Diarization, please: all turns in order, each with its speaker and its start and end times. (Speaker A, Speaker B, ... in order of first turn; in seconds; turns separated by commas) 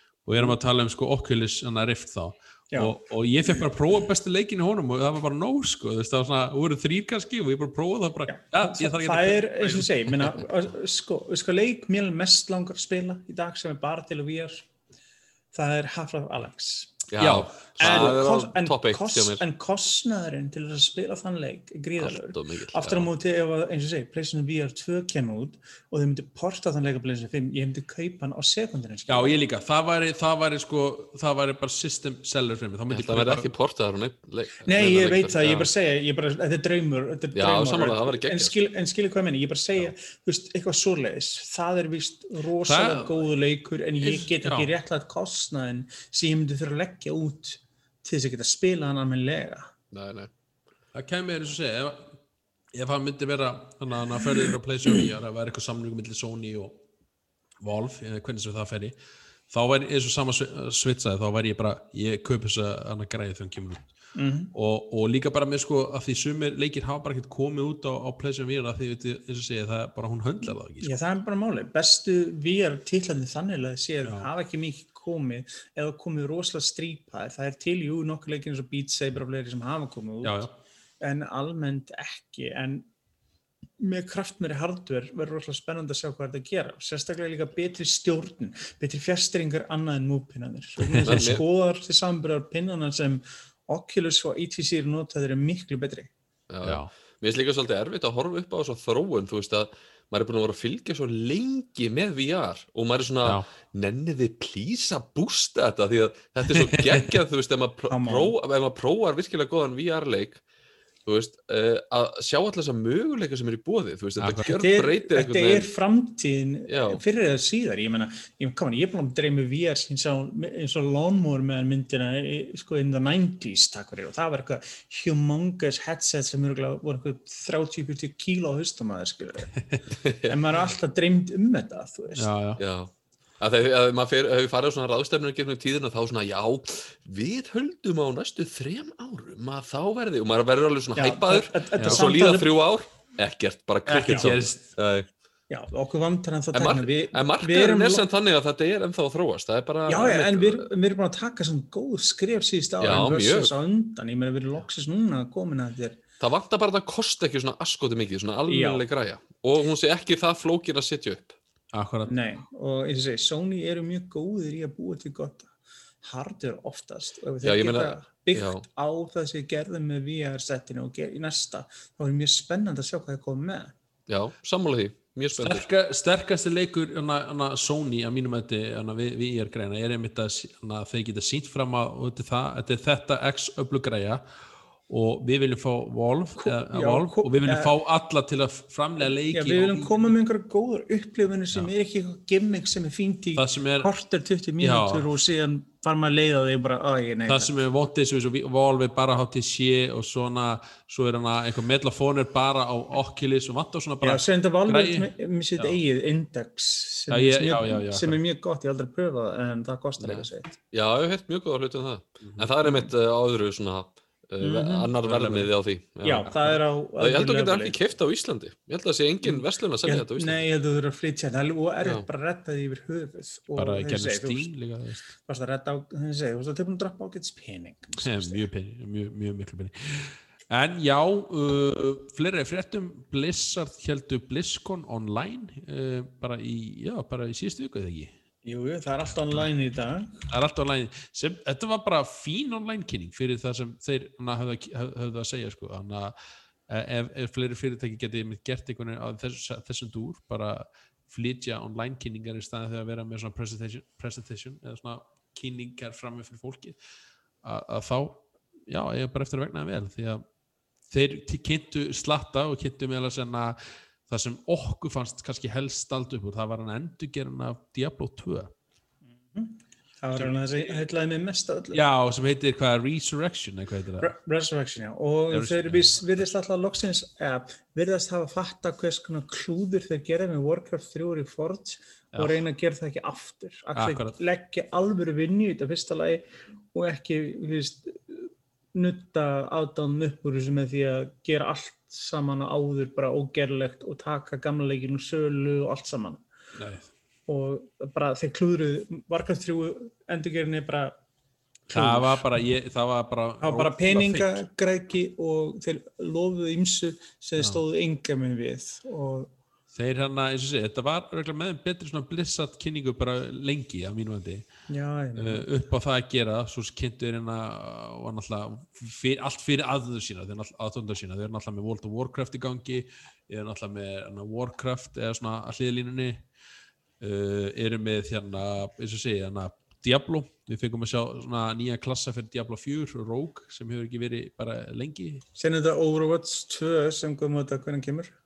Speaker A: 0.2-10.5, Speaker B: 2.7-3.0, Speaker B: 8.3-14.7, Speaker B: 15.5-17.0, Speaker C: 17.1-19.4, Speaker A: 17.2-18.2, Speaker B: 17.8-29.4, Speaker C: 22.0-23.1, Speaker A: 29.1-33.5, Speaker C: 32.9-35.7, Speaker B: 34.7-49.7, Speaker C: 37.4-38.5, Speaker A: 42.7-43.2, Speaker A: 44.0-44.7, Speaker C: 49.9-50.3, Speaker A: 50.9-52.2, Speaker A: 52.7-56.8, Speaker A: 57.6-59.0, Speaker A: 59.5-63.9, Speaker B: 64.2-64.5, Speaker A: 64.5-70.9, Speaker B: 70.8-80.4, Speaker A: 80.2-80.6, Speaker B: 81.0-82.9, Speaker B: 83.8-96.1, Speaker A: 90.8-91.3, Speaker C: 91.0-91.4, Speaker C: 96.5-110.4, Speaker A: 96.6-96.9, Speaker A: 106.6-107.1, Speaker B: 107.9-108.3, Speaker C: 111.1-115.7, Speaker A: 114.2-114.5, Speaker B: 114.4-129.6, Speaker C: 116.7-117.0, Speaker C: 130.0-130.3, Speaker B: 130.2-132.3, Speaker A: 132.2-132.6, Speaker C: 132.6-145.1, Speaker B: 141.0-142.5, Speaker A: 143.9-144.6, Speaker B: 144.0-144.3, Speaker B: 145.5-148.1, Speaker C: 146.5-150.7, Speaker B: 149.9-156.0, Speaker C: 152.8-153.5, Speaker C: 156.2-161.4, Speaker B: 158.5-158.8, Speaker A: 161.7-162.1, Speaker B: 162.1-165.5, Speaker B: 166.0-173.7, Speaker C: 167.4-168.6, Speaker C: 174.1-175.7, Speaker A: 175.3-184.2, Speaker A: 184.9-190.1, Speaker B: 186.4-187.7, Speaker B: 189.0-197.5, Speaker A: 193.4-193.9, Speaker A: 194.6-195.1, Speaker A: 197.3-205.8, Speaker B: 204.0-210.6, Speaker A: 207.1-208.2, Speaker C: 210.0-220.5, Speaker A: 212.2-212.5, Speaker B: 214.4-214.9, Speaker A: 215.0-215.5, Speaker B: 216.0-217.8, Speaker B: 219.2-224.5, Speaker A: 223.6-225.1, Speaker B: 225.2-228.4, Speaker A: 228.0-238.1, Speaker B: 238.4-240.2, Speaker A: 240.3-246.1, Speaker A: 246.7-256.8, Speaker A: 257.4-260.2, Speaker A: 260.9-268.5, Speaker B: 269.2-271.8, Speaker A: 271.7-274.1, Speaker B: 274.0-296.2, Speaker A: 275.3-276.1, Speaker A: 282.1-282.4, Speaker A: 283.8-284.2, Speaker A: 296.6-296.9, Speaker B: 297.3-300.9, Speaker B: 301.7-302.3, Speaker A: 301.7-304.4, Speaker B: 303.4-309.3, Speaker A: 309.7-314.5, Speaker B: 314.7-315.5, Speaker A: 315.2-326.2, Speaker A: 327.0-335.2, Speaker B: 335.4-338.1